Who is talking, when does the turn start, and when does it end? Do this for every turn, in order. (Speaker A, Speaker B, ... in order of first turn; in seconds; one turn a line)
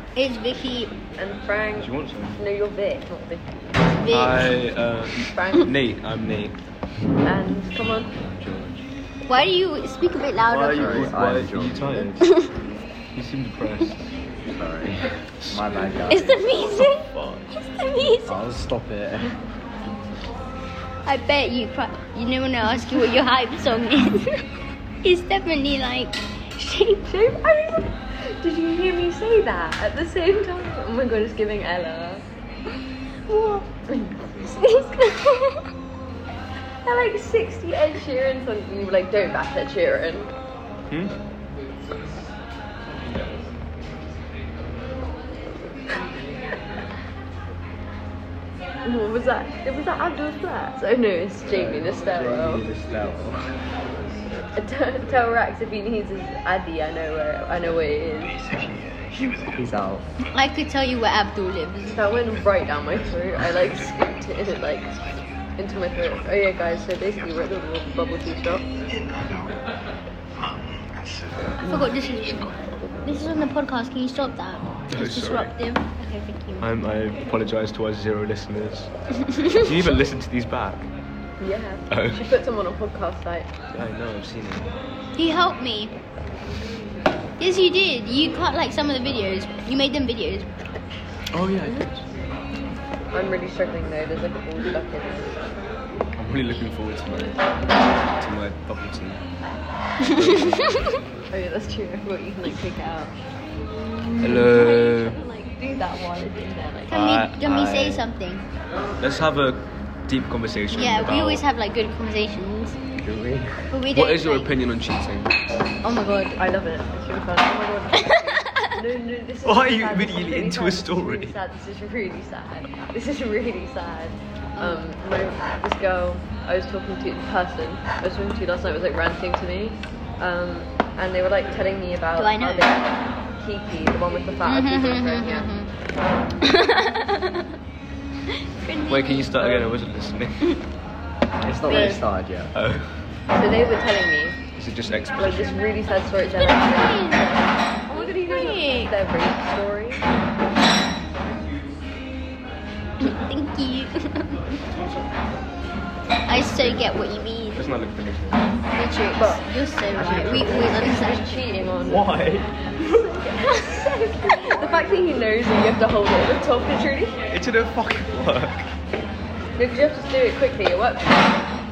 Speaker A: 0.2-0.9
Speaker B: 1.2-3.5
Speaker C: 1.8-2.4
Speaker A: 4.0-4.5
Speaker C: 4.1-6.6
Speaker B: 5.3-5.7
Speaker B: 7.2-8.2
Speaker C: 8.2-8.9
Speaker A: 9.3-11.1
Speaker C: 10.5-12.3
Speaker D: 10.7-12.1
Speaker C: 13.1-14.0
Speaker D: 14.5-16.5
Speaker C: 15.4-15.8
Speaker A: 16.1-18.5
Speaker C: 16.7-17.5
Speaker D: 18.3-19.3
Speaker A: 21.1-24.4
Speaker A: 25.0-27.1
Speaker B: 27.1-32.2
Speaker A: 33.3-33.7
Speaker B: 33.9-34.3
Speaker A: 34.4-35.7
Speaker B: 36.8-40.3
Speaker C: 40.9-41.1
Speaker B: 48.9-52.7
Speaker D: 51.5-53.5
Speaker B: 54.6-58.5
Speaker B: 59.2-59.5
Speaker D: 59.5-60.1
Speaker A: 60.3-62.0
Speaker B: 61.9-68.7
Speaker A: 71.6-76.7
Speaker C: 74.9-75.5
Speaker C: 76.6-78.9
Speaker A: 79.3-79.6
Speaker C: 79.5-80.9
Speaker B: 81.4-83.5
Speaker C: 81.9-82.3
Speaker C: 83.7-84.7
Speaker A: 85.2-85.9
Speaker A: 87.4-90.5
Speaker C: 91.3-92.1
Speaker B: 93.1-95.4
Speaker C: 96.1-97.5
Speaker C: 98.2-99.2
Speaker A: 100.0-101.0
Speaker C: 100.0-100.9
Speaker B: 101.3-103.2
Speaker B: 104.2-107.1
Speaker C: 104.2-105.2
Speaker C: 106.9-108.0
Speaker A: 106.9-108.5
Speaker C: 109.0-111.5
Speaker A: 110.7-112.8
Speaker D: 113.0-113.7
Speaker A: 113.7-114.5
Speaker C: 113.9-115.4
Speaker A: 115.8-116.4
Speaker B: 116.4-136.4
Speaker A: 118.0-118.8
Speaker C: 119.4-121.4
Speaker A: 124.6-124.8
Speaker A: 132.2-132.7
Speaker A: 134.4-135.7
Speaker A: 136.4-137.5
Speaker A: 138.6-139.5
Speaker C: 138.9-140.5
Speaker B: 139.4-139.7
Speaker D: 141.4-142.5
Speaker C: 141.7-142.9
Speaker A: 141.7-142.0
Speaker B: 143.3-144.4
Speaker C: 144.6-145.7
Speaker B: 145.2-150.1
Speaker A: 146.4-148.9
Speaker A: 153.0-154.4
Speaker C: 154.7-155.1
Speaker A: 156.3-157.6
Speaker C: 156.4-156.9
Speaker C: 157.6-158.4
Speaker A: 158.7-161.4
Speaker B: 159.2-159.4
Speaker C: 159.9-160.7
Speaker B: 160.5-162.1
Speaker C: 161.8-162.5
Speaker B: 162.8-167.2
Speaker A: 163.4-164.6
Speaker C: 167.3-168.7
Speaker B: 169.6-171.4